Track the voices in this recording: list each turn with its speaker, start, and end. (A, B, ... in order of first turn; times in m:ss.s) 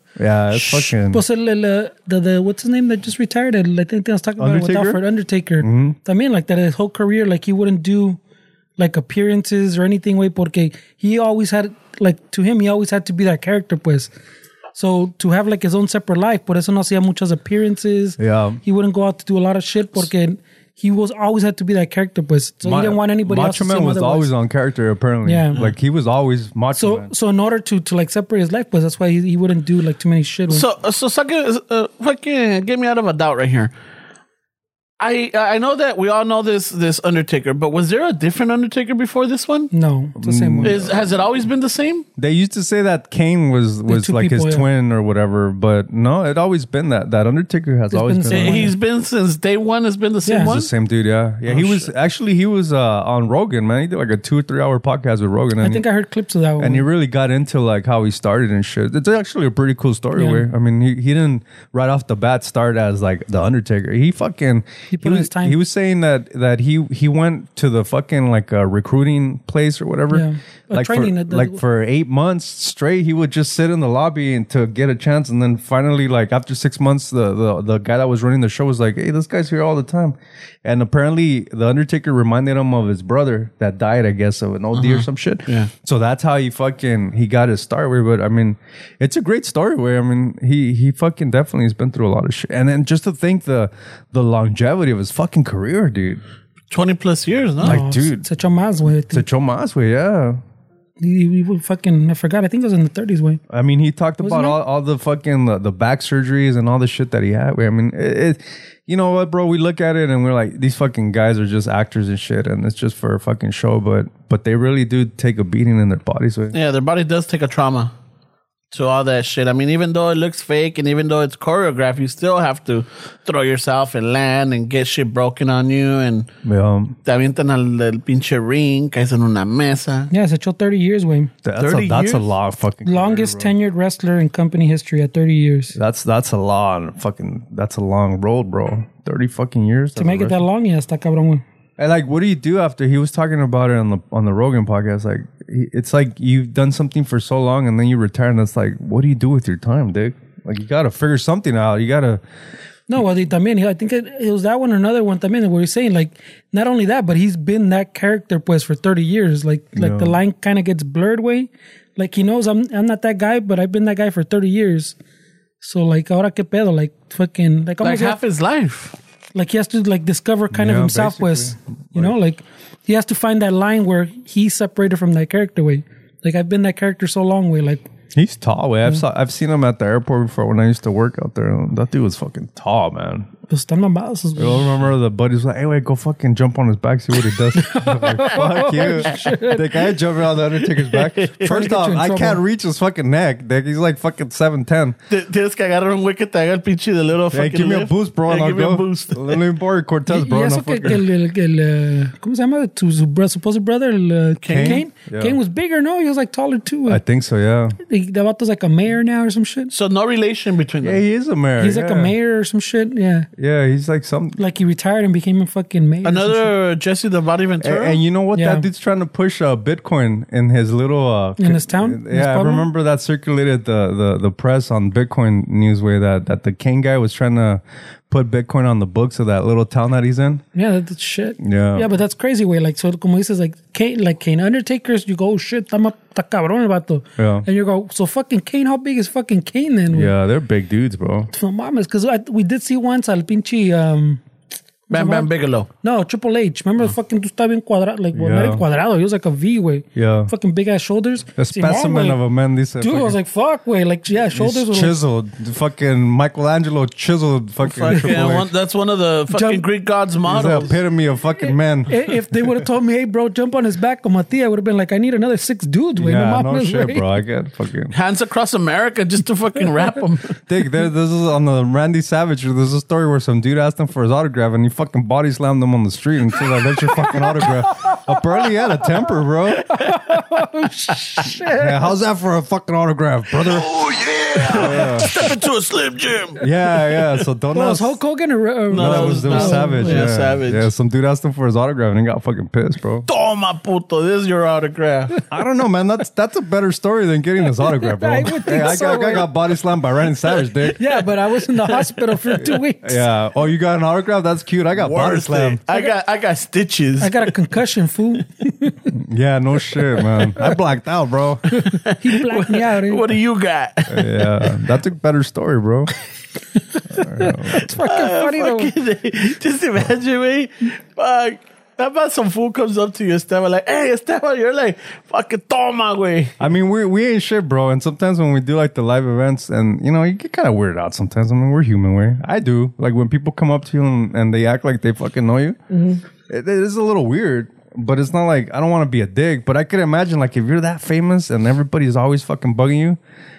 0:00.2-0:01.2 A
0:01.1-0:08.2 B
0:04.4-0:05.0 A
0:05.6-0:06.0 A
0:08.8-0:14.1 B
0:14.7-0:24.3 B
0:18.2-0:18.6 A
0:22.6-0:27.1 A
0:25.2-0:25.6 B
0:26.7-0:30.6 B
0:30.5-0:33.7 C
0:35.0-0:39.7 C
0:39.7-0:40.8 B
0:40.2-0:41.1 A
0:40.6-0:42.0 C
0:42.2-0:48.7 A
0:43.9-0:44.6 B
0:47.9-0:48.7 B
0:48.3-0:50.7 C
0:50.2-0:50.5 B
0:50.4-0:55.8 A
0:51.4-0:51.9 C
0:55.6-0:56.9 B
0:56.6-1:36.2 A
1:00.1-1:00.4 B
1:04.9-1:05.6 B
1:10.1-1:11.6 B
1:24.7-1:25.7 C
1:36.7-1:37.8 C
1:37.6-1:38.3 A
1:37.6-1:39.2 B
1:39.1-1:40.4 A
1:41.0-1:43.4 B
1:43.5-1:56.5 A
1:44.2-1:44.6 B
1:56.5-1:57.9 C
1:58.7-2:06.3 C
2:06.4-2:07.0 A
2:07.0-2:10.1 C
2:10.1-2:11.3 B
2:11.4-2:13.5 A
2:11.6-2:12.3 C
2:12.8-2:15.8 B
2:15.7-2:20.4 A
2:20.0-2:21.4 B
2:21.8-2:32.2 A
2:32.9-2:45.0 B
2:39.8-2:40.2 A
2:45.6-2:48.2 B
2:47.8-2:49.0 C
2:49.3-2:57.9 B
2:50.5-2:52.1 A
2:58.1-3:03.3 A
3:03.5-3:04.8 B
3:04.4-3:15.0 A
3:07.5-3:09.8 B
3:10.6-3:11.6 C
3:11.4-3:12.4 B
3:15.1-3:19.4 C
3:17.3-3:21.0 A
3:20.1-3:27.0 B
3:24.4-3:24.8 C
3:24.5-3:25.4 A
3:26.9-3:27.8 A
3:27.8-3:29.7 B
3:29.7-3:31.0 C
3:30.8-3:32.1 A
3:31.6-3:33.3 B
3:33.4-3:34.4 A
3:34.4-3:36.5 B
3:36.0-3:38.0 C
3:37.6-3:50.4 A
3:38.3-3:38.6 B
3:41.4-3:42.7 B
3:50.5-4:00.1 B
3:51.4-3:51.9 A
3:57.2-3:57.4 A
3:59.9-4:01.3 A
4:01.3-4:04.2 B
4:04.9-4:05.3 B
4:04.9-4:05.7 C
4:05.8-4:12.2 B
4:08.1-4:08.6 A
4:09.9-4:10.3 A
4:11.4-4:13.2 A
4:12.8-4:15.0 B
4:14.3-4:18.5 A
4:17.6-4:20.8 C
4:19.3-4:19.6 B
4:20.2-4:22.6 A
4:21.4-4:27.1 B
4:26.0-4:27.9 A
4:27.9-4:30.4 C
4:30.5-4:39.7 A
4:39.7-4:41.9 B
4:41.5-4:43.8 A
4:43.6-4:46.4 C
4:44.4-4:45.3 A
4:46.4-4:48.0 A
4:47.5-4:50.1 B
4:48.7-4:50.7 C
4:48.7-4:53.1 A
4:53.1-4:55.2 C
4:55.3-5:00.9 A
4:57.6-4:59.3 B
5:00.7-5:03.0 B
5:01.6-5:02.4 C
5:02.4-5:05.6 A
5:04.8-5:07.3 C
5:07.0-5:08.9 B
5:08.9-5:11.5 A
5:11.5-5:13.0 B
5:11.6-5:14.6 C
5:13.9-5:15.9 A
5:16.9-5:17.7 A
5:17.0-5:18.7 B
5:17.6-5:26.4 C
5:26.4-5:35.6 A
5:36.3-5:43.0 A